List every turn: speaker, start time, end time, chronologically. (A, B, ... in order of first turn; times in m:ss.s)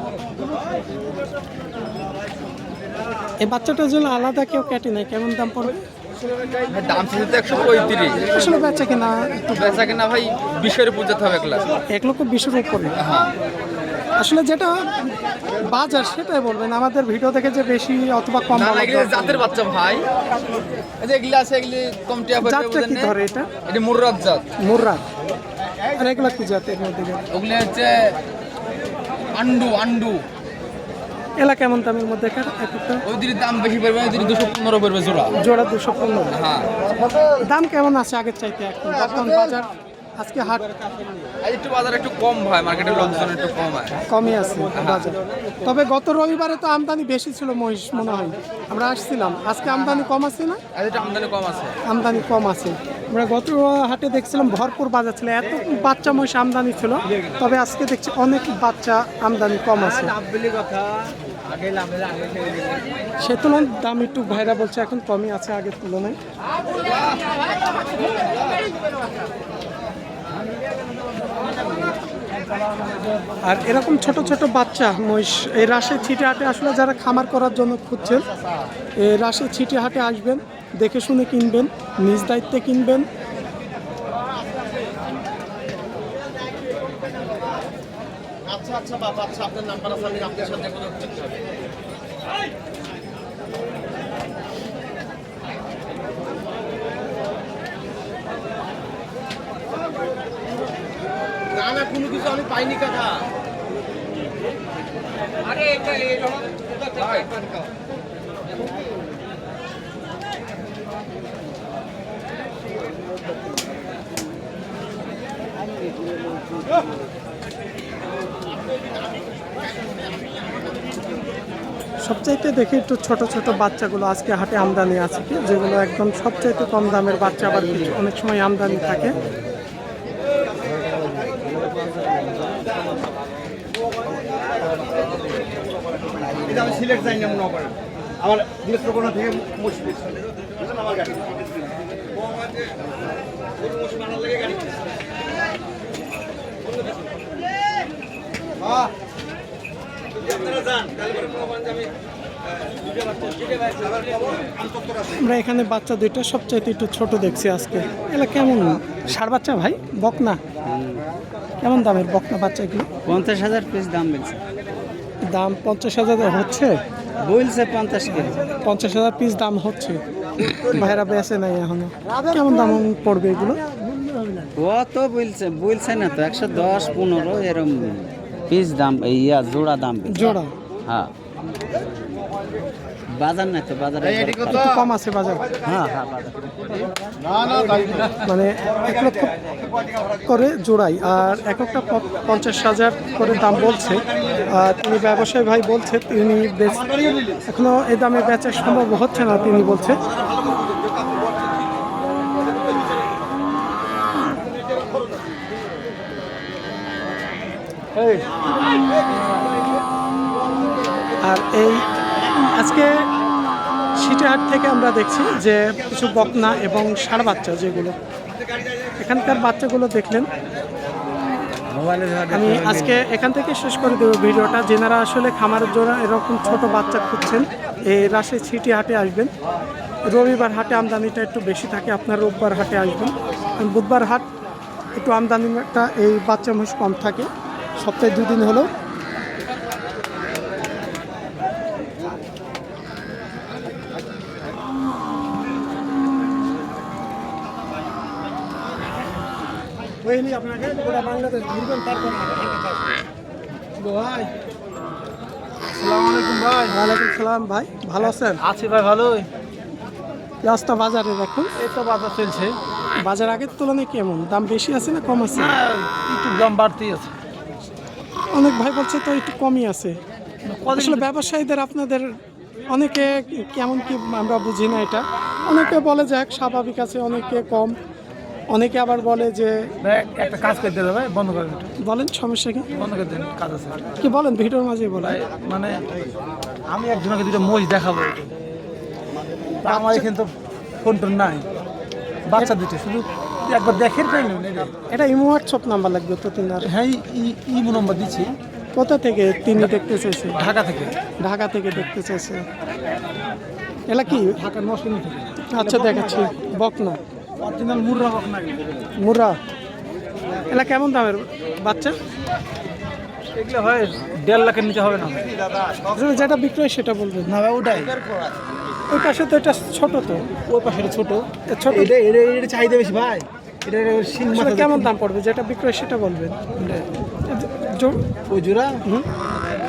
0:03.4-0:05.8 A
0:06.7-0:08.4 B
0:08.2-0:09.9 A
0:09.6-0:11.8 B
0:11.9-0:13.0 A
0:13.0-0:13.3 B
0:14.2-0:14.9 A
0:15.6-0:19.4 A
0:18.5-0:20.1 B
0:21.0-0:23.1 B
0:22.4-0:23.5 A
0:23.6-0:24.5 B
0:24.6-0:25.0 A
0:25.9-0:27.2 A
0:27.3-0:28.2 B
0:29.3-0:30.2 B
0:31.4-0:33.0 A
0:33.0-0:35.4 B
0:35.4-0:36.4 A
0:36.4-0:36.8 B
0:37.4-0:40.7 A
0:41.4-0:44.0 B
0:44.0-0:50.6 A
0:44.8-0:45.0 B
0:50.7-0:51.8 B
0:51.8-1:00.2 A
0:59.7-1:01.1 C
1:01.7-1:02.7 C
1:03.2-1:06.2 A
1:13.4-1:18.2 A
1:19.0-1:23.1 A
2:02.0-2:09.2 A
2:16.5-2:17.3 C
2:35.1-2:40.4 A
2:40.6-2:41.1 C
2:41.6-2:42.9 A
2:43.1-2:44.4 C
2:45.3-2:46.8 A
2:47.2-2:48.5 C
2:48.6-2:53.6 A
2:54.5-3:01.1 C
3:00.1-3:00.5 A
3:03.1-3:04.6 C
3:04.5-3:05.4 A
3:05.6-3:06.8 C
3:07.5-3:08.0 C
3:08.1-3:09.3 A
3:10.2-3:16.9 A
3:17.5-3:20.0 A
3:27.9-3:28.3 D
3:31.2-3:31.8 A
3:32.5-3:33.0 A
3:34.0-3:37.9 A
3:39.0-3:40.3 A
3:41.7-3:43.0 C
3:42.3-3:49.3 A
3:50.1-3:54.3 A
3:55.0-3:58.7 A
4:10.0-4:12.6 D
4:13.8-4:14.3 D
4:15.6-4:16.7 D
4:16.7-4:18.4 A
4:18.0-4:19.3 D
4:20.4-4:21.5 A
4:21.6-4:22.6 D
4:23.0-4:25.6 A
4:25.3-4:27.1 D
4:28.3-4:30.0 A
4:30.4-4:31.1 D
4:30.7-4:32.1 A
4:32.7-4:37.8 A
4:38.5-4:39.7 A
4:39.8-4:41.7 D
4:41.8-4:42.7 A
4:42.7-4:43.9 D
4:44.0-4:45.2 A
4:45.0-4:45.8 D
4:46.7-4:48.3 D
4:49.6-4:51.4 D
4:49.6-4:50.1 A
4:52.3-4:54.7 D
4:54.9-4:56.7 A
4:56.6-4:58.3 D
4:58.7-5:00.4 A
5:00.4-5:01.0 D
5:01.2-5:02.4 A
5:03.9-5:04.4 A
5:04.0-5:06.4 D
5:05.5-5:07.0 A
5:07.4-5:08.7 D
5:09.0-5:09.4 A
5:10.5-5:12.0 A
5:13.3-5:15.3 D
5:15.9-5:17.3 A
5:17.2-5:18.0 D
5:18.9-5:20.3 A
5:20.5-5:24.9 D
5:21.5-5:21.9 A
5:24.3-5:26.5 A
5:26.6-5:26.8 D
5:27.3-5:28.0 A
5:28.3-5:28.8 D